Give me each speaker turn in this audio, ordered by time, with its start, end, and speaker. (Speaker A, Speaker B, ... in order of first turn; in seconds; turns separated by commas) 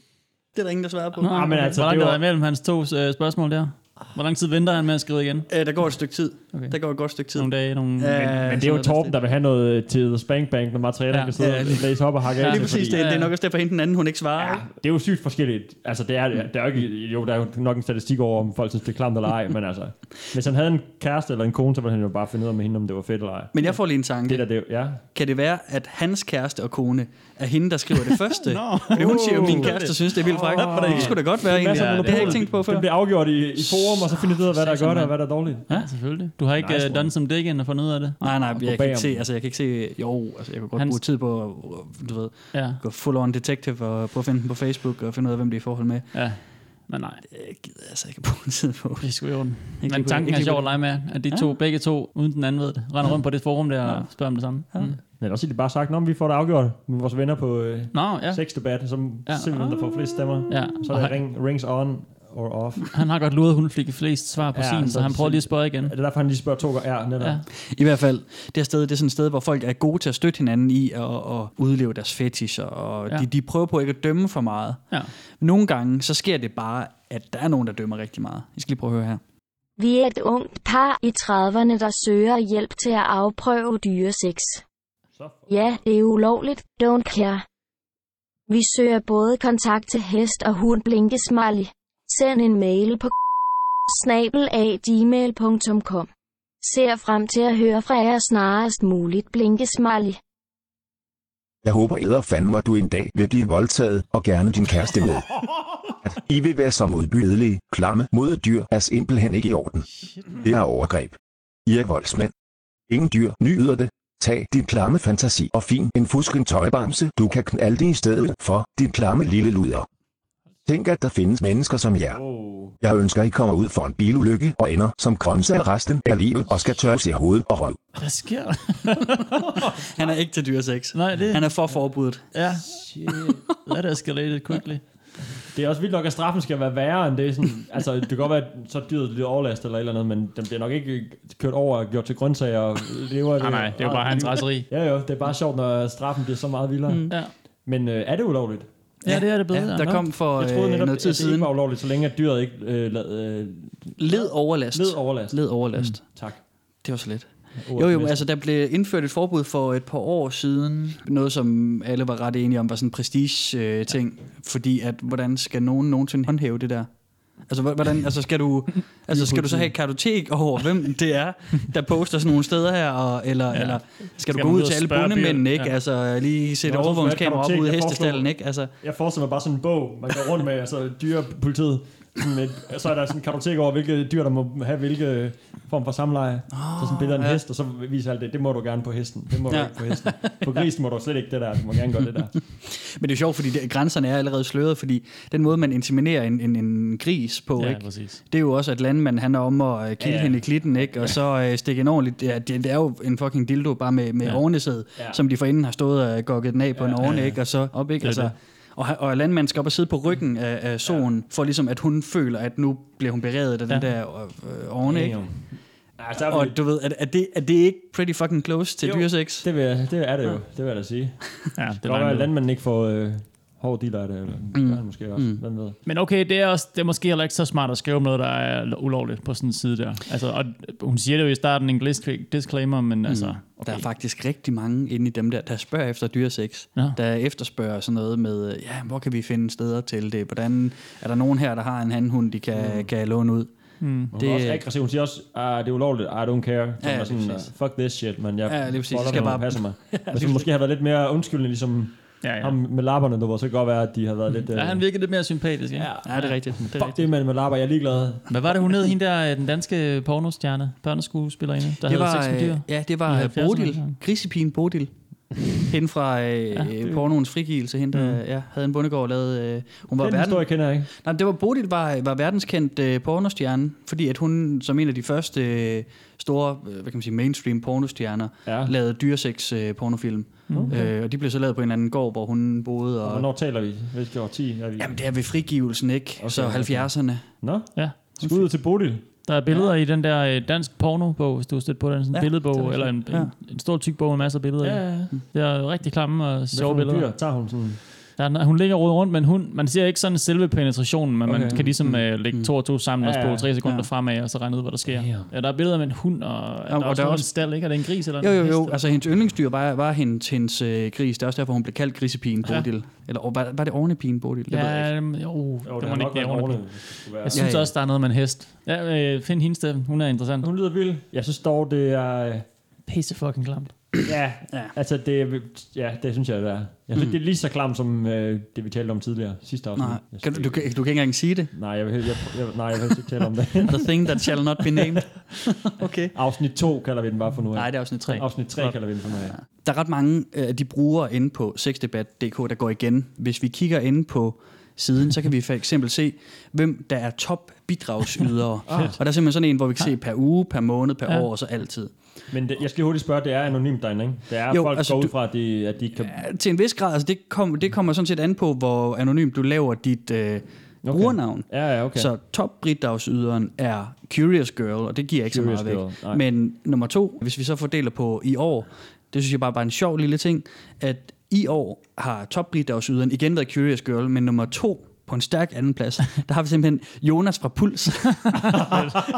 Speaker A: 0.6-1.5, Speaker B: 1.2-5.5, Speaker C: 1.3-2.2, Speaker A: 5.5-9.1, Speaker B: 6.5-8.3, Speaker C: 8.2-13.0, Speaker A: 11.4-14.6, Speaker B: 12.4-13.3, Speaker C: 14.4-25.0, Speaker A: 23.5-24.6, Speaker A: 25.1-32.9, Speaker B: 28.4-32.5, Speaker C: 28.9-35.7, Speaker B: 34.1-38.2, Speaker C: 36.6-37.1, Speaker A: 38.2-46.1, Speaker C: 38.5-39.2, Speaker B: 42.5-42.8, Speaker B: 46.1-47.2, Speaker A: 47.3-49.1, Speaker B: 49.0-55.0, Speaker A: 49.6-51.5, Speaker A: 53.9-54.9, Speaker C: 55.1-62.9, Speaker B: 57.9-58.7, Speaker B: 59.3-60.0, Speaker B: 60.5-61.2, Speaker B: 62.9-65.9, Speaker C: 64.5-67.4, Speaker B: 67.2-67.5, Speaker A: 67.6-79.2, Speaker D: 79.8-84.6, Speaker C: 85.2-85.5, Speaker D: 85.5-87.5, Speaker D: 88.5-93.2, Speaker D: 93.9-96.1, Speaker D: 96.6-100.2, Speaker E: 101.6-105.4, Speaker E: 106.0-112.3, Speaker E: 112.9-119.9, Speaker E: 120.7-122.2, Speaker C: 122.1-122.8, Speaker E: 122.8-127.8, Speaker B: 128.0-129.7, Speaker A: 130.0-132.3, Speaker B: 130.9-131.6, Speaker B: 132.3-132.7, Speaker C: 132.7-133.4, Speaker B: 133.7-134.8, Speaker C: 135.5-148.7, Speaker B: 143.4-144.7, Speaker A: 146.9-147.2, Speaker B: 147.1-147.4, Speaker B: 149.0-150.1, Speaker A: 149.0-151.5, Speaker C: 149.8-156.4, Speaker A: 154.0-156.2, Speaker A: 156.8-178.7, Speaker C: 157.6-158.3, Speaker C: 169.2-169.7, Speaker B: 173.5-175.8, Speaker C: 176.7-192.4, Speaker A: 186.5-187.4, Speaker A: 189.5-190.7, Speaker A: 192.7-215.5, Speaker B: 197.6-198.2, Speaker C: 200.0-201.1, Speaker C: 206.8-207.4, Speaker B: 208.0-208.3, Speaker C: 214.8-216.6, Speaker A: 216.2-219.5, Speaker C: 218.8-225.8, Speaker B: 221.6-222.3, Speaker A: 224.5-225.4, Speaker B: 225.8-233.9, Speaker A: 233.1-244.7, Speaker C: 242.5-242.9, Speaker B: 243.8-244.1, Speaker C: 244.1-254.9, Speaker A: 246.8-247.5, Speaker A: 248.5-250.5, Speaker B: 252.2-252.6, Speaker B: 254.4-256.4, Speaker C: 255.8-258.3, Speaker A: 256.1-257.1, Speaker B: 258.3-264.0, Speaker A: 261.9-264.9, Speaker A: 265.6-283.3, Speaker C: 270.0-270.9, Speaker C: 278.5-278.7, Speaker C: 280.5-280.9, Speaker C: 283.0-285.1, Speaker A: 284.8-287.6, Speaker C: 286.2-289.1, Speaker B: 287.7-288.2, Speaker B: 289.2-297.4, Speaker A: 292.1-293.4, Speaker C: 294.6-295.2, Speaker C: 296.5-297.8, Speaker B: 298.2-308.8, Speaker C: 301.2-301.6, Speaker A: 301.5-302.5, Speaker C: 303.0-303.5, Speaker C: 304.9-305.3, Speaker A: 306.7-307.6, Speaker A: 308.2-314.9, Speaker B: 314.5-320.5, Speaker C: 315.6-317.6, Speaker A: 317.3-317.7, Speaker C: 320.4-322.5, Speaker B: 322.9-323.8, Speaker C: 324.0-330.7, Speaker A: 329.8-331.5, Speaker C: 331.5-335.0, Speaker A: 333.7-336.1, Speaker C: 336.1-339.4, Speaker A: 337.5-351.9, Speaker B: 337.9-338.2, Speaker C: 348.7-349.0, Speaker C: 352.3-356.2, Speaker A: 354.5-355.1, Speaker A: 356.0-378.9, Speaker C: 360.8-362.1, Speaker C: 365.3-366.2, Speaker B: 378.6-378.9